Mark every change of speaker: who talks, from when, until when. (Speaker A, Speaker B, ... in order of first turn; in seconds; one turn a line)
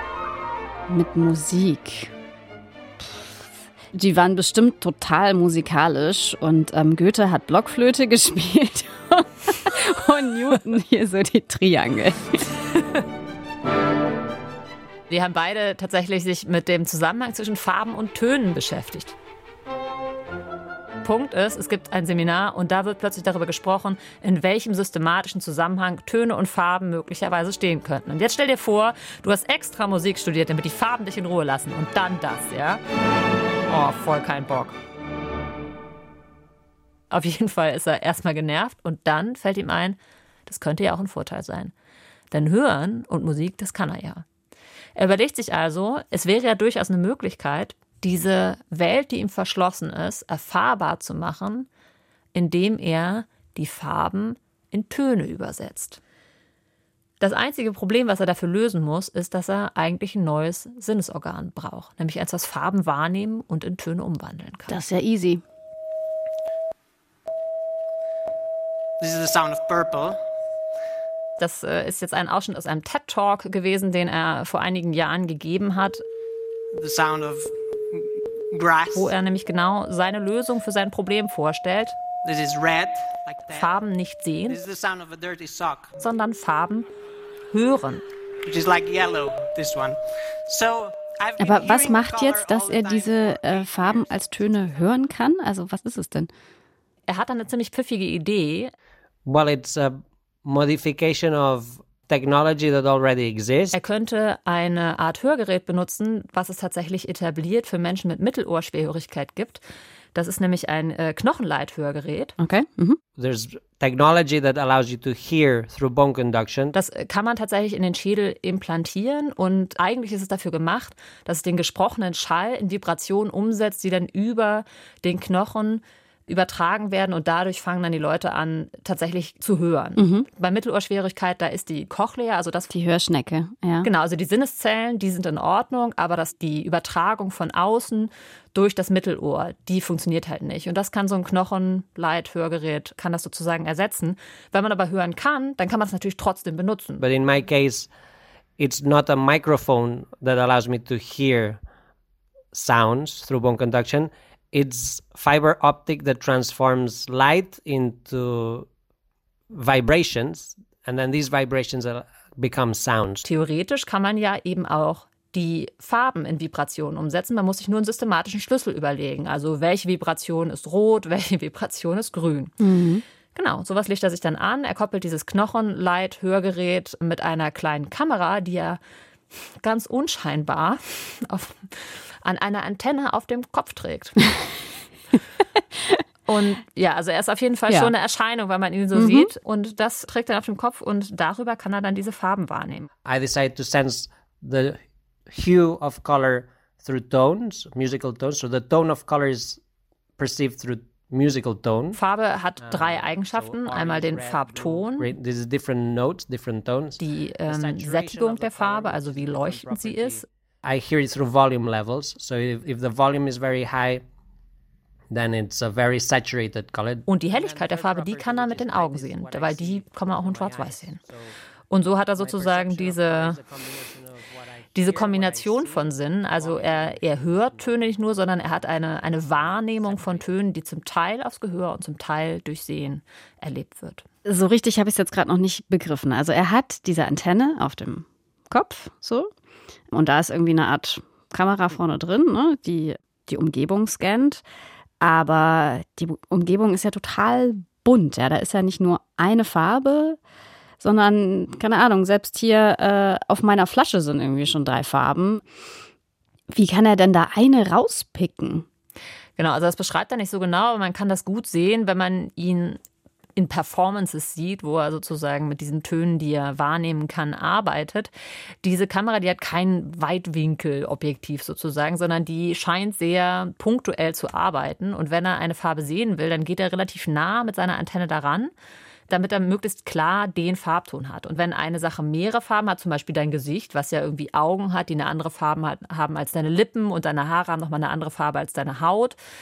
Speaker A: 0.9-2.1
Speaker A: 3.9-12.6
Speaker B: 15.1-19.1
Speaker B: 21.0-32.8
Speaker B: 33.7-34.8
Speaker B: 37.1-41.7
Speaker B: 42.3-44.2
Speaker B: 45.0-51.7
Speaker B: 52.3-56.0
Speaker B: 57.2-64.8
Speaker A: 64.7-65.4
Speaker C: 69.0-70.2
Speaker B: 71.4-76.0
Speaker C: 76.7-79.1
Speaker B: 78.9-82.0
Speaker C: 82.2-83.7
Speaker B: 83.5-84.6
Speaker C: 84.5-86.0
Speaker B: 86.0-86.9
Speaker B: 87.5-88.0
Speaker C: 88.4-94.4
Speaker A: 91.4-96.3
Speaker B: 97.1-98.7
Speaker D: 99.2-103.8
Speaker B: 103.7-109.6
Speaker B: 110.1-112.3
Speaker A: 112.4-113.0
Speaker D: 113.2-116.7
Speaker B: 116.7-132.7
Speaker A: 130.0-130.2
Speaker A: 132.7-133.9
Speaker B: 133.8-147.0
Speaker D: 147.0-147.9
Speaker D: 148.6-151.6
Speaker D: 152.5-158.7
Speaker D: 159.5-163.2
Speaker B: 163.2-172.6
Speaker A: 172.6-173.0
Speaker B: 173.3-178.8
Speaker B: 179.6-184.3
Speaker B: 186.3-192.9
Speaker A: 188.9-189.3
Speaker D: 193.0-199.6
Speaker D: 200.2-202.0
Speaker B: 201.9-205.1
Speaker D: 202.6-214.0
Speaker B: 207.0-210.2
Speaker D: 215.1-221.3
Speaker B: 217.1-221.0
Speaker B: 221.7-223.4
Speaker D: 222.2-227.7
Speaker B: 224.7-234.0
Speaker D: 228.5-230.4
Speaker A: 234.2-239.3
Speaker A: 239.9-244.4
Speaker A: 245.0-250.2
Speaker A: 250.8-255.4
Speaker A: 256.5-258.6
Speaker B: 259.4-262.8
Speaker B: 263.4-268.1
Speaker B: 268.6-278.5
Speaker B: 279.1-289.2